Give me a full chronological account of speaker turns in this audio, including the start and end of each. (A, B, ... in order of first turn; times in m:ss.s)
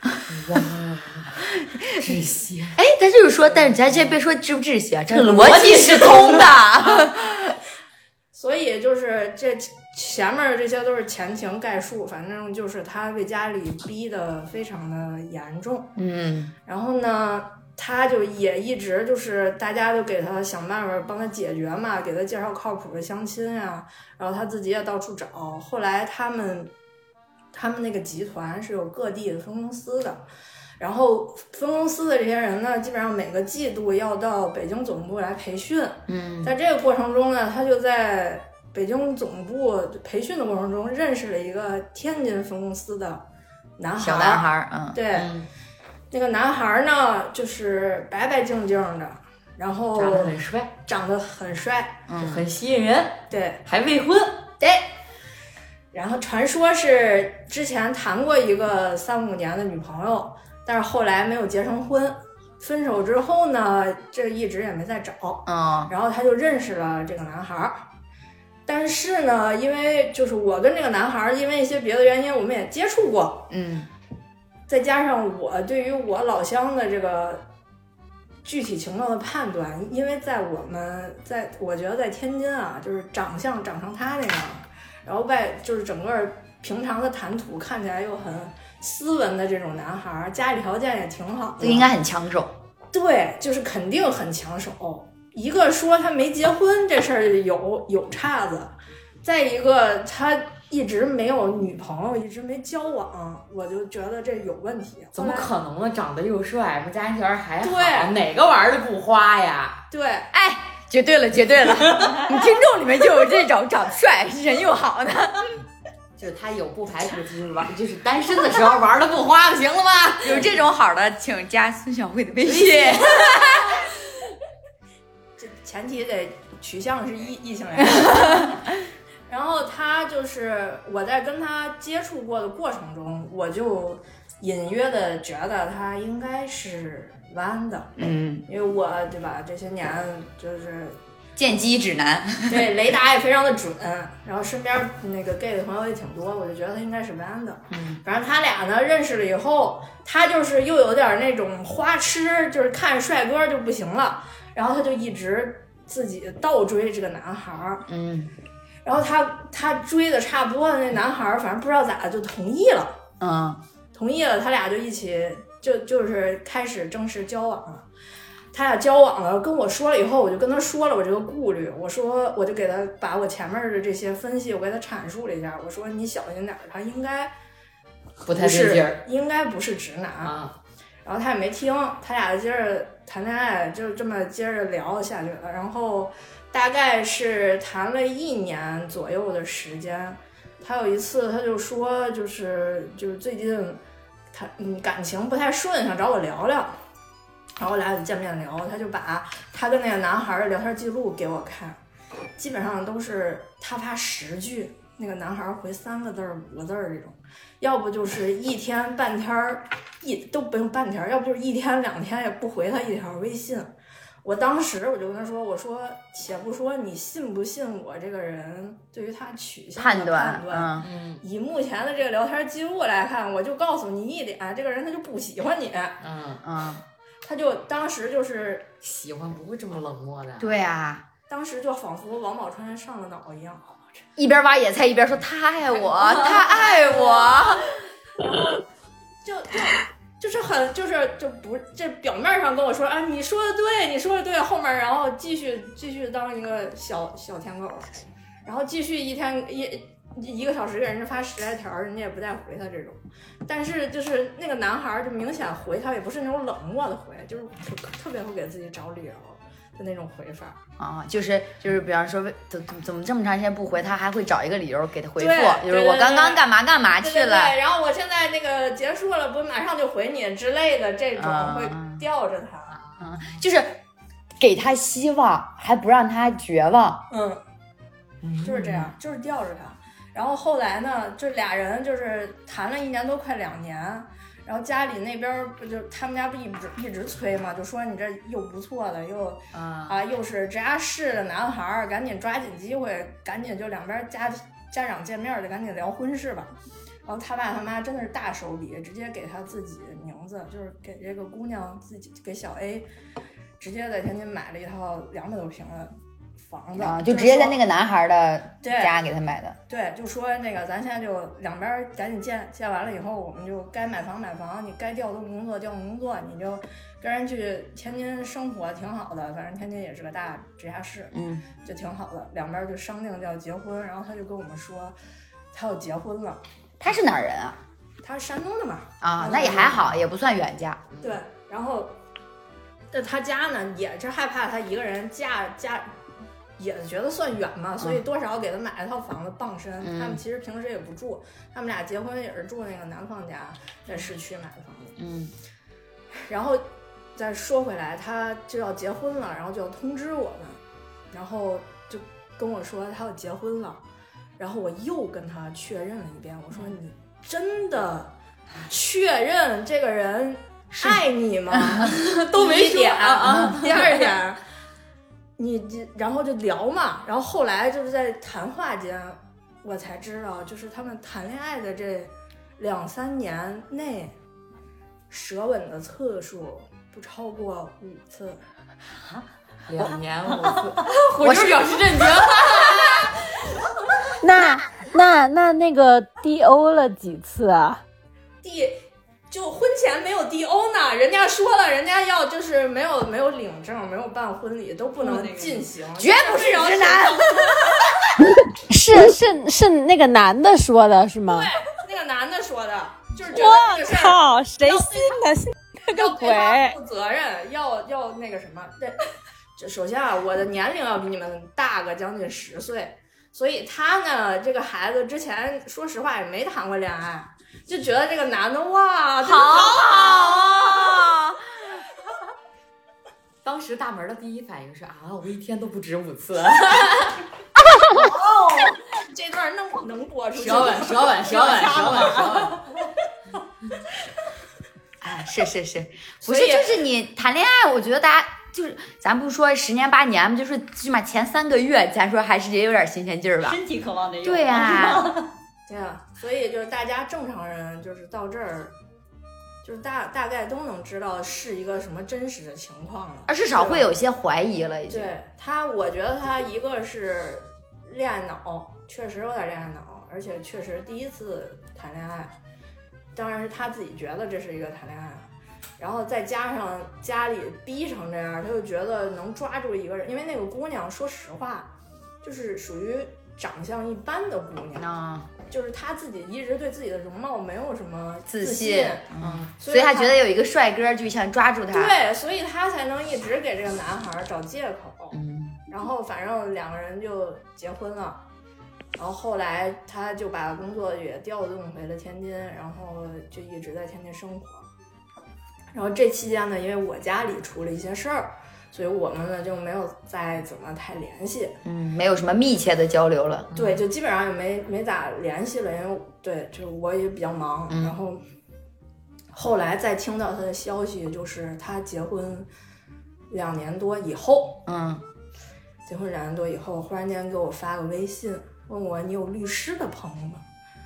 0:00.3-0:02.8 A
0:01.6-0:02.2 B
0:02.7-0:07.6 B
0:03.6-0:04.2 A
0:05.1-0:06.7 A
0:08.3-0:16.0 C
0:16.0-0:16.5 B
0:16.6-0:26.7 C
0:27.5-0:30.2 C
0:30.8-0:43.2 C
0:36.1-0:36.5 B
0:43.8-0:45.3 C
0:44.0-0:45.0 B
0:45.2-0:45.5 A
0:46.1-0:52.0 C
0:50.0-0:50.7 A
0:52.1-0:52.4 B
0:52.2-0:54.5 A
0:53.3-0:53.6 C
0:55.9-1:07.9 C
1:05.5-1:05.9 B
1:08.7-1:13.5 C
1:13.5-1:13.9 B
1:14.7-1:17.4 C
1:18.4-1:31.9 C
1:31.6-1:32.5 B
1:32.9-1:45.5 C
1:45.2-1:49.9 A
1:47.6-1:48.1 C
1:49.9-1:50.3 C
1:50.3-1:55.5 B
1:56.2-2:00.5 A
2:00.2-2:03.8 B
2:02.5-2:03.4 C
2:05.4-2:08.6 C
2:07.9-2:08.6 B
2:09.3-2:21.0 C
2:18.0-2:18.4 B
2:21.4-2:22.7 B
2:22.5-2:37.9 C
2:27.7-2:28.0 B
2:37.9-2:38.3 B
2:38.8-2:43.0 C
2:43.2-2:43.6 B
2:43.9-2:47.9 C
2:48.5-2:57.3 C
2:58.2-2:59.0 A
2:58.3-3:00.4 C
3:00.2-3:00.6 A
3:01.0-3:13.8 C
3:14.3-3:16.8 C
3:17.6-3:21.8 C
3:22.4-3:33.7 C
3:34.2-3:46.0 C
3:39.8-3:40.9 B
3:40.8-3:41.2 A
3:46.0-3:46.4 A
3:46.4-3:46.8 B
3:47.2-3:48.7 C
3:48.8-3:50.5 A
3:50.4-3:51.1 B
3:51.3-3:54.1 C
3:54.2-3:57.8 B
3:55.8-3:57.7 C
3:59.2-4:07.9 C
4:08.4-4:20.6 C
4:20.8-4:27.6 B
4:25.2-4:32.8 C
4:31.2-4:32.0 B
4:33.0-4:33.8 B
4:34.4-4:37.1 B
4:37.1-4:37.4 C
4:38.2-4:38.9 B
4:38.4-4:56.5 C
4:49.5-4:50.0 B
4:57.1-5:02.9 C
5:03.6-5:07.6 C
5:06.8-5:09.6 B
5:08.6-5:08.9 C
5:09.7-5:25.0 C
5:21.1-5:21.5 B
5:25.5-5:26.4 C
5:26.8-5:27.6 B
5:28.0-5:29.9 C
5:29.0-5:30.9 B
5:30.9-5:31.2 A
5:31.0-5:32.0 C
5:32.9-5:35.9 C
5:36.6-5:45.0 C
5:39.8-5:40.2 B
5:45.0-5:45.3 B
5:46.3-5:46.6 C
5:47.2-5:50.6 C
5:51.1-5:53.8 C
5:54.4-5:58.1 C
5:58.7-6:04.4 C
6:01.8-6:04.2 A
6:03.2-6:03.6 B
6:05.4-6:14.2 C
6:15.1-6:18.4 C
6:19.7-6:23.2 A
6:21.2-6:21.7 B
6:24.2-6:27.8 D
6:28.4-6:37.9 C
6:36.0-6:37.9 B
6:38.7-6:41.5 D
6:41.3-6:45.2 C
6:43.3-6:46.8 D
6:45.8-7:00.9 C
6:59.2-7:01.4 B
7:03.4-7:07.2 A
7:08.7-7:12.2 C
7:10.4-7:12.6 A
7:11.3-7:12.6 E
7:15.0-7:23.6 B
7:16.2-7:16.8 C
7:23.4-7:25.3 E
7:24.2-7:25.2 B
7:25.7-7:28.7 C
7:29.6-7:33.9 C
7:33.3-7:35.1 B
7:34.9-7:42.3 C
7:43.2-7:51.7 C
7:52.2-7:54.9 C
7:54.8-7:55.3 B
7:55.5-8:00.2 C
7:58.3-8:02.0 B
8:01.7-8:05.2 C
8:05.1-8:05.6 B
8:05.7-8:08.2 C
8:09.0-8:14.7 C
8:15.7-8:21.6 C
8:21.6-8:23.5 B
8:23.5-8:23.8 A
8:23.5-8:28.2 C
8:27.7-8:28.0 B
8:29.3-8:32.5 C
8:33.3-8:34.6 C
8:34.7-8:35.0 B
8:35.9-8:40.4 C